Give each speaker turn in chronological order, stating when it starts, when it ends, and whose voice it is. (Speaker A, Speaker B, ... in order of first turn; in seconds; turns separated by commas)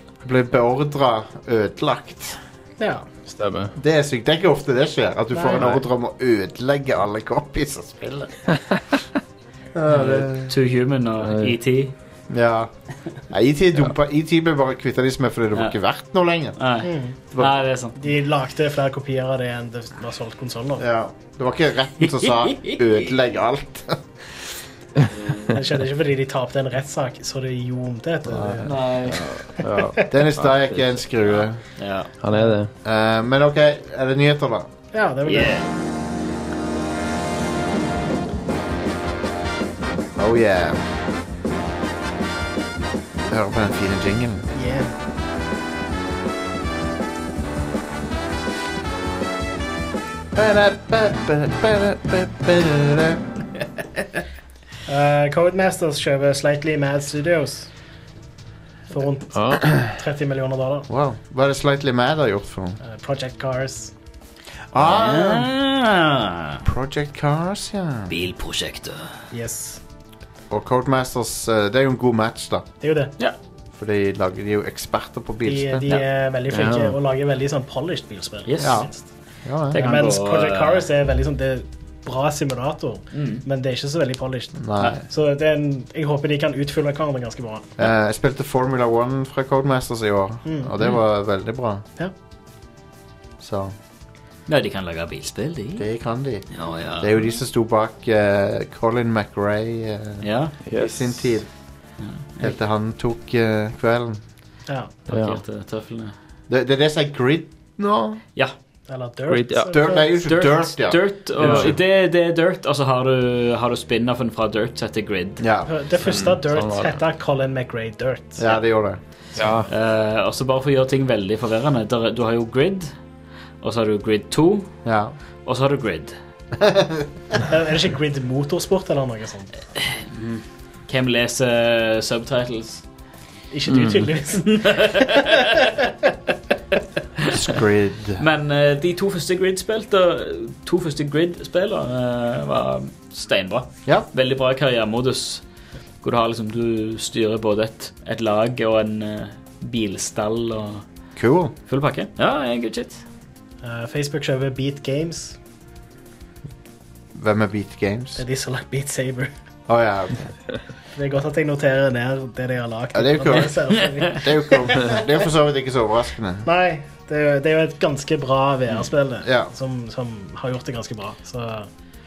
Speaker A: 0.2-2.4, Speaker B: 2.8-3.1, Speaker C: 3.2-3.7, Speaker A: 3.8-8.4, Speaker B: 5.3-5.7, Speaker C: 5.5-5.8, Speaker A: 9.7-10.5, Speaker D: 9.9-11.9, Speaker C: 11.2-11.5, Speaker A: 12.3-12.7, Speaker A: 13.3-16.6, Speaker D: 16.6-17.9, Speaker B: 16.8-17.1, Speaker B: 18.0-20.8, Speaker A: 20.8-24.5, Speaker D: 22.4-22.8, Speaker B: 25.5-28.9, Speaker A: 28.2-28.9, Speaker D: 28.6-29.2, Speaker C: 29.1-30.9, Speaker B: 29.6-30.1, Speaker A: 30.1-31.6, Speaker D: 31.8-32.1, Speaker C: 32.2-32.7, Speaker B: 32.3-32.5, Speaker A: 32.8-34.7, Speaker B: 34.9-35.6, Speaker D: 35.3-35.7, Speaker A: 40.1-40.8, Speaker A: 43.3-44.5, Speaker B: 44.5-44.9, Speaker A: 50.3-53.2, Speaker B: 54.9-57.7, Speaker B: 58.9-60.9, Speaker C: 59.3-59.7, Speaker A: 60.9-62.8, Speaker B: 62.8-63.9, Speaker A: 64.7-65.5, Speaker D: 64.8-66.6, Speaker A: 66.6-68.1, Speaker D: 68.1-69.2, Speaker B: 69.3-69.8, Speaker A: 70.5-72.7, Speaker B: 72.8-73.1, Speaker A: 73.7-76.0, Speaker B: 75.4-79.1, Speaker C: 76.5-77.0, Speaker D: 78.5-78.8, Speaker A: 78.6-78.9, Speaker A: 79.4-80.0, Speaker D: 79.7-80.8, Speaker B: 79.7-87.7, Speaker D: 83.1-83.4, Speaker A: 84.6-85.0, Speaker A: 87.8-91.8, Speaker B: 90.4-90.7, Speaker A: 93.4-93.7, Speaker D: 94.5-95.9, Speaker A: 95.8-101.5, Speaker D: 96.5-97.2, Speaker D: 100.2-100.5, Speaker C: 100.7-101.2, Speaker D: 102.0-102.5, Speaker A: 102.4-104.2, Speaker B: 104.7-104.9, Speaker D: 105.1-106.1, Speaker C: 105.1-105.4, Speaker A: 106.5-108.2, Speaker B: 108.9-110.1, Speaker C: 109.3-109.7, Speaker A: 109.7-111.8, Speaker D: 110.2-115.4, Speaker C: 111.4-111.7, Speaker A: 115.4-115.7, Speaker B: 115.7-118.5, Speaker C: 116.0-117.0, Speaker A: 118.4-119.0, Speaker C: 119.3-119.7, Speaker D: 119.7-122.9, Speaker D: 123.6-124.7, Speaker A: 124.8-125.1, Speaker D: 125.5-126.1, Speaker A: 126.5-127.1, Speaker B: 127.4-129.6, Speaker D: 129.9-132.8, Speaker B: 133.5-135.6, Speaker C: 133.7-134.1, Speaker D: 134.3-135.7, Speaker D: 137.2-137.5, Speaker A: 137.3-138.2, Speaker D: 138.2-145.4, Speaker D: 146.0-150.8, Speaker A: 151.2-151.5, Speaker D: 151.7-153.0, Speaker B: 153.6-155.4, Speaker A: 157.1-158.2, Speaker B: 158.2-159.3, Speaker A: 159.7-160.3, Speaker B: 160.9-165.1, Speaker A: 162.9-166.5, Speaker B: 166.4-171.7, Speaker A: 169.2-169.5